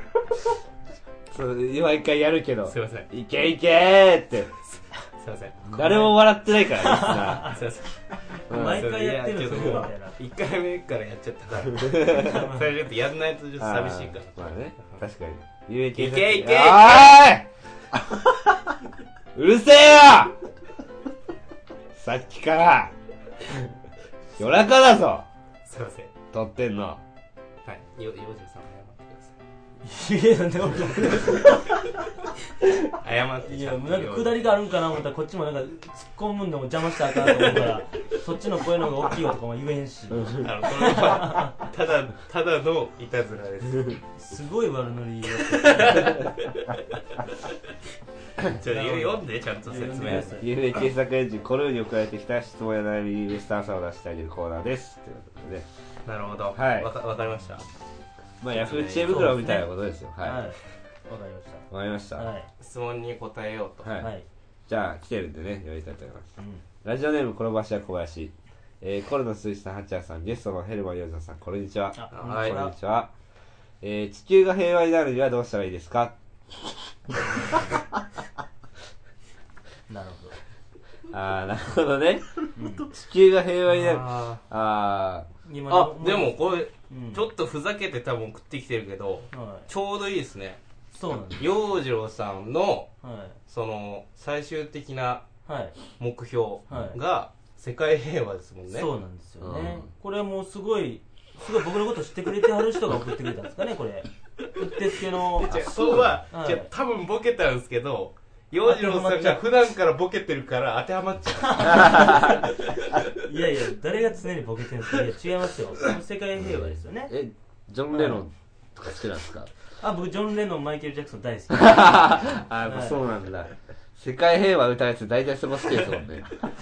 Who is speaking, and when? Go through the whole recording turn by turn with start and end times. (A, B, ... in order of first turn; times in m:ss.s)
0:01.3-0:04.5 A
0:02.7-0:03.1 B
0:05.2-0:05.7 B
0:05.7-0:07.6 C
0:05.7-0:07.6 A
0:07.5-0:08.0 B
0:08.5-0:10.1 C
0:08.5-0:08.8 A
0:08.6-0:15.0 B
0:12.0-0:12.2 A
0:12.1-0:12.7 C
0:13.6-0:17.5 A
0:15.9-0:17.2 B
0:19.3-0:20.4 A
0:22.0-0:22.9 A
0:24.4-0:25.3 A
0:25.6-0:26.1 B
0:26.3-0:27.0 A
0:27.6-0:29.3 B
0:29.8-0:31.7 C
0:32.9-0:34.5 B
0:33.4-0:41.6 C
0:40.1-0:40.4 A
0:40.4-0:44.0 B
0:44.1-0:46.2 C
0:45.5-0:46.8 B
0:48.5-0:50.3 B
0:48.7-0:50.5 C
0:50.4-0:55.7 A
0:56.0-0:57.6 B
0:56.5-0:56.9 A
0:58.4-1:00.4 A
0:58.5-0:59.3 B
0:59.0-0:59.7 C
1:00.2-1:02.5 C
1:01.7-1:02.3 A
1:02.6-1:03.9 B
1:03.8-1:04.1 A
1:04.0-1:04.2 C
1:04.7-1:06.3 A
1:06.4-1:06.6 C
1:06.8-1:13.1 A
1:11.9-1:12.7 C
1:12.1-1:12.6 B
1:13.8-1:16.2 A
1:19.9-1:20.4 C
1:21.1-1:22.3 A
1:22.6-1:22.9 C
1:22.8-1:25.3 A
1:23.7-1:24.4 B
1:25.4-1:27.3 C
1:25.7-1:30.6 B
1:29.3-1:29.7 C
1:30.9-1:31.4 C
1:31.4-1:32.9 B
1:33.0-1:33.4 C
1:33.5-1:35.2 B
1:35.4-1:35.7 C
1:36.0-1:38.9 B
1:36.7-1:37.0 C
1:38.7-1:45.6 C
1:39.4-1:39.9 A
1:45.4-1:53.0 B
1:45.5-1:46.2 A
1:46.3-1:46.7 C
1:48.6-1:49.4 C
1:51.4-1:52.4 C
1:51.8-1:52.3 A
1:53.2-1:57.1 C
1:56.4-1:59.5 A
1:57.9-1:58.2 C
1:59.8-2:03.0 C
2:01.5-2:06.3 A